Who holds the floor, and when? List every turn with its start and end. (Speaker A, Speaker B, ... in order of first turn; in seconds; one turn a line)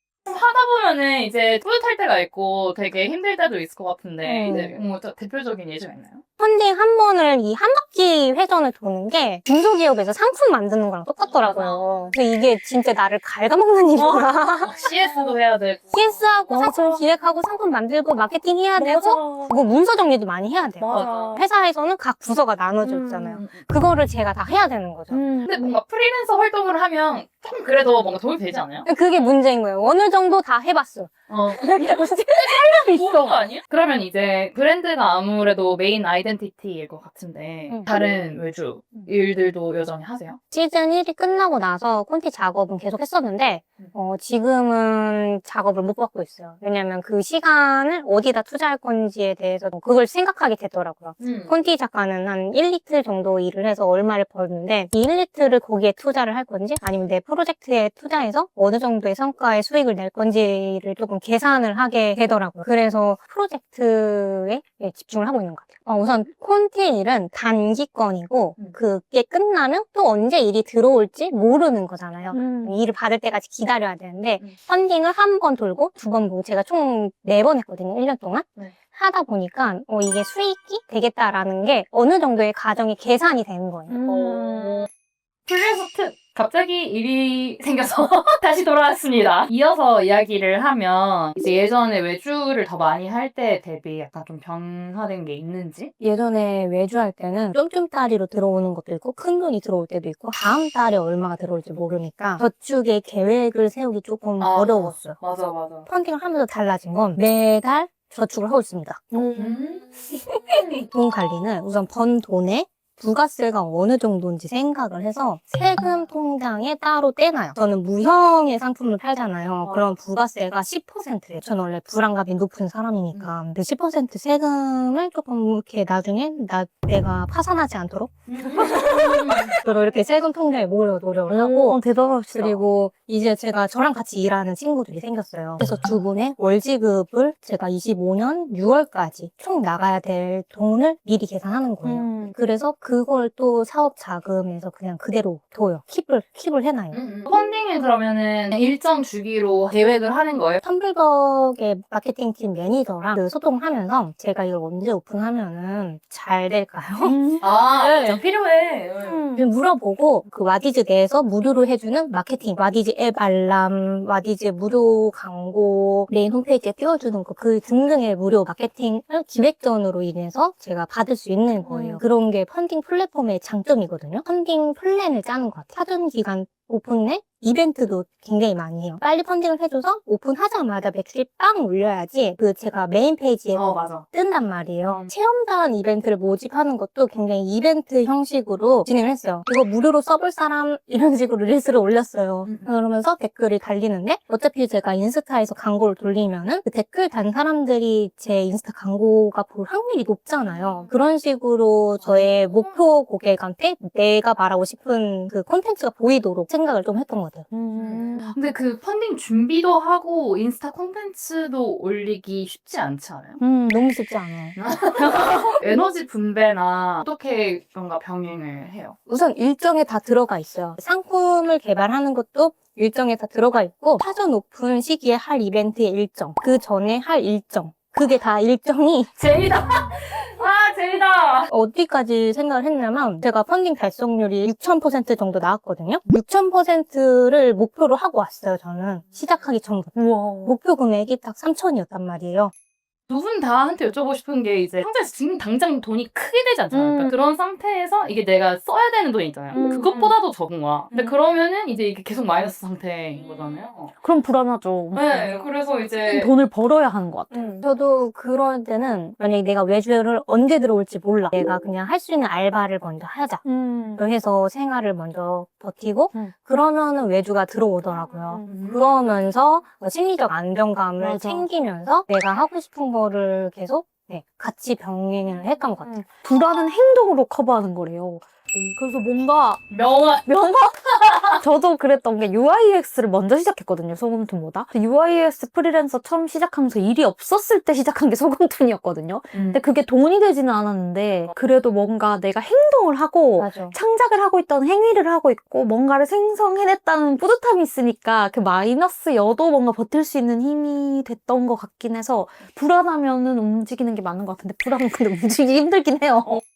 Speaker A: 0.3-6.2
Speaker B: 4.3-4.7
Speaker C: 4.3-4.7
Speaker B: 6.4-14.8
Speaker A: 11.3-12.1
Speaker A: 14.0-16.2
Speaker C: 15.0-15.3
Speaker B: 15.9-25.3
Speaker C: 16.5-17.0
Speaker C: 18.8-19.6
Speaker C: 20.8-21.4
Speaker A: 20.8-21.4
Speaker C: 22.8-23.4
Speaker A: 23.3-23.6
Speaker C: 25.1-25.6
Speaker A: 25.4-28.9
Speaker B: 28.9-33.5
Speaker A: 31.3-40.4
Speaker B: 40.5-84.0
Speaker A: 51.2-51.5
Speaker C: 72.3-72.8
Speaker C: 83.9-84.9
Speaker A: 84.0-84.9
Speaker A: 85.5-95.9
Speaker B: 96.0-105.2
Speaker A: 104.4-105.9
Speaker B: 105.9-109.0
Speaker C: 109.1-110.9
Speaker A: 109.4-109.6
Speaker B: 110.9-131.8
Speaker A: 128.3-129.6
Speaker C: 128.7-129.5
Speaker C: 131.3-132.6
Speaker B: 132.3-147.0
Speaker C: 141.8-142.4
Speaker A: 146.9-150.6
Speaker B: 150.6-158.2
Speaker C: 157.0-157.5
Speaker A: 157.4-159.2
Speaker C: 159.0-159.5
Speaker B: 159.3-207.5
Speaker C: 171.6-172.0
Speaker A: 183.5-184.1
Speaker A: 184.9-185.1
Speaker A: 200.5-200.9
Speaker A: 202.0-202.8
Speaker C: 207.5-208.4
Speaker A: 207.8-213.4
Speaker C: 213.4-213.8
Speaker B: 213.7-215.6
Speaker A: 214.6-219.0
Speaker B: 219.1-229.2
Speaker A: 229.2-231.5
Speaker B: 231.5-242.5
Speaker C: 239.9-240.6
Speaker A: 243.1-253.9
Speaker C: 246.7-247.2
Speaker C: 249.5-250.2
Speaker C: 250.9-251.2
Speaker C: 254.0-255.4
Speaker A: 254.9-256.3
Speaker C: 256.1-257.6
Speaker B: 257.3-263.4
Speaker C: 263.4-264.0
Speaker B: 264.0-276.0
Speaker C: 268.3-268.6
Speaker A: 268.5-268.8
Speaker C: 271.0-271.5
Speaker C: 275.8-279.6
Speaker A: 279.7-281.4
Speaker C: 280.2-280.8
Speaker C: 281.3-306.4
Speaker A: 289.3-289.6
Speaker B: 293.4-293.8